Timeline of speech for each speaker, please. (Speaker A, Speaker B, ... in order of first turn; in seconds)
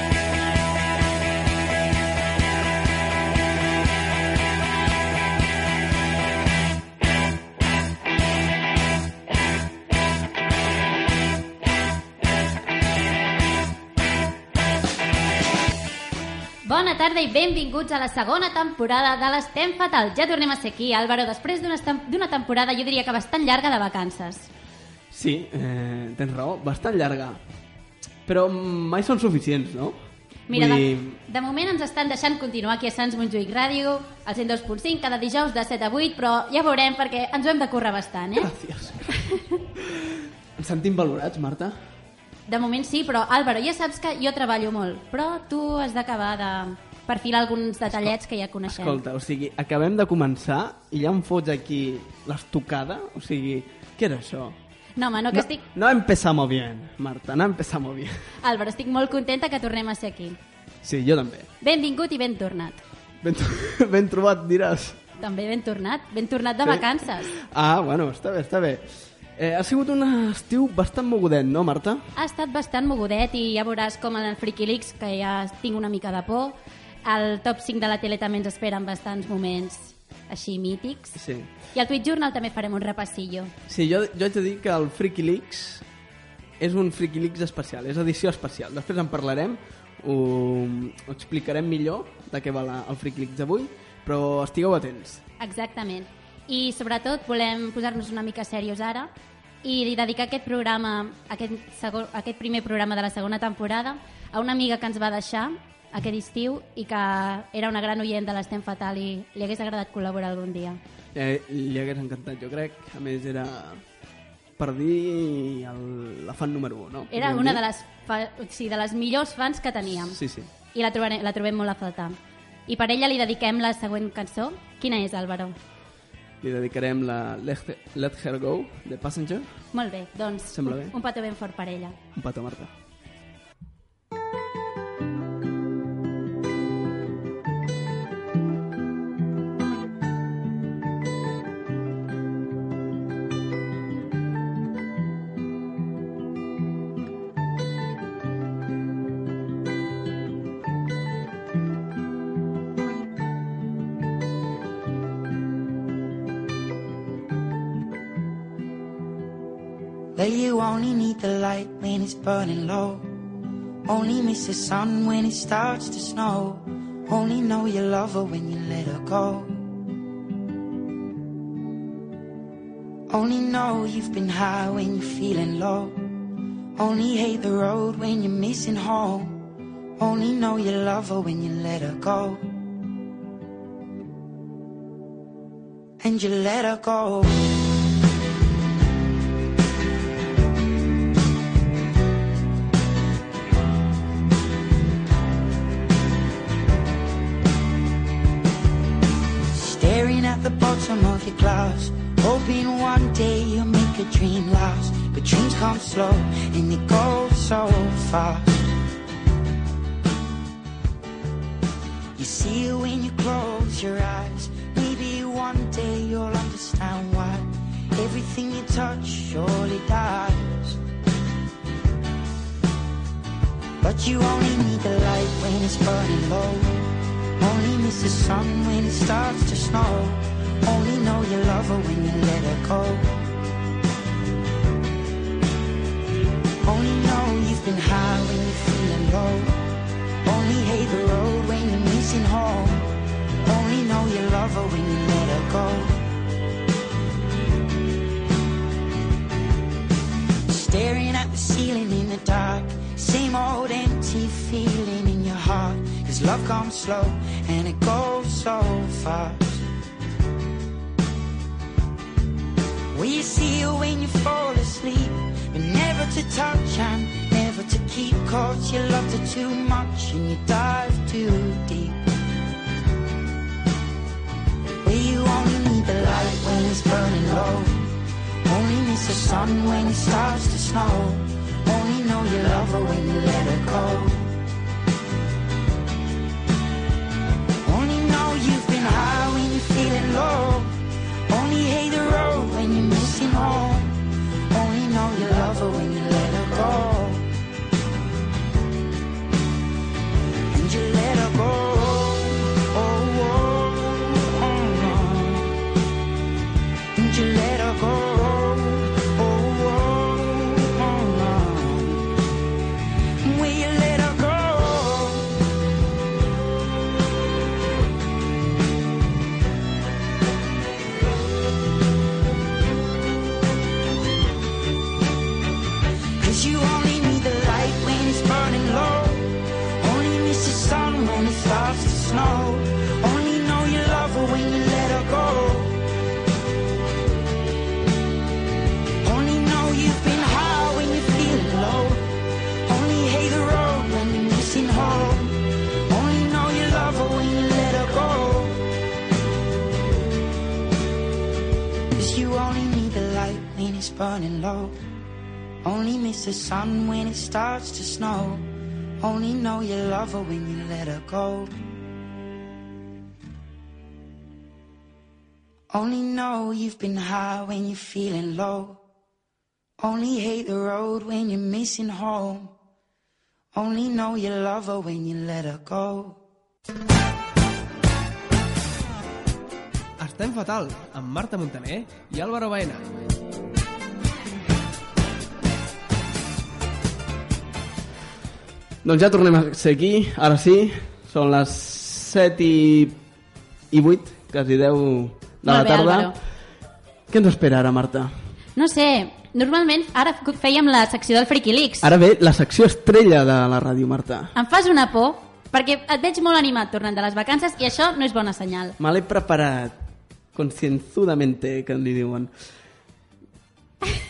Speaker A: 16.6-24.5, 30.5-38.5, 42.5-49.0, 55.0-55.6, 58.4-60.4, 61.6-62.8, 65.2-67.3, 72.2-81.2, 81.7-83.5, 95.4-99.1, 99.6-110.8, 117.1-120.2, 120.7-125.5, 129.7-132.0, 395.4-396.1, 398.6-401.9, 404.3-408.8
Speaker B: 25.1-27.4, 28.2-30.0, 30.5-31.2, 38.4-39.2, 39.7-41.8, 48.7-54.6, 55.3-58.1, 60.8-61.5, 63.2-65.0, 66.6-72.0, 81.2-81.5, 83.7-85.8, 86.6-95.2, 111.1-113.8, 114.6-117.6, 120.1-120.5, 126.4-129.5, 130.5-130.9, 132.1-132.7, 381.9-382.1, 388.8-393.0, 393.7-396.1, 397.1-398.1, 401.8-404.3, 408.8-409.7, 410.3-412.3
Speaker C: 160.1-163.1, 163.8-169.6, 173.1-176.1, 176.8-179.4, 180.0-182.4, 186.0-187.6, 199.5-208.8, 212.2-220.8, 223.8-233.2, 236.6-239.6, 240.2-242.9, 243.4-246.1, 250.4-259.6, 262.9-272.1, 274.8-277.9, 278.4-284.3, 287.6-290.8, 291.3-297.3, 300.5-305.6, 306.9-312.2, 313.2-315.4, 326.2-335.8, 339.0-348.7, 351.9-354.8, 355.6-358.5, 359.0-361.5, 365.7-368.8, 369.8-372.5, 373.5-376.2
Speaker D: 380.0-382.8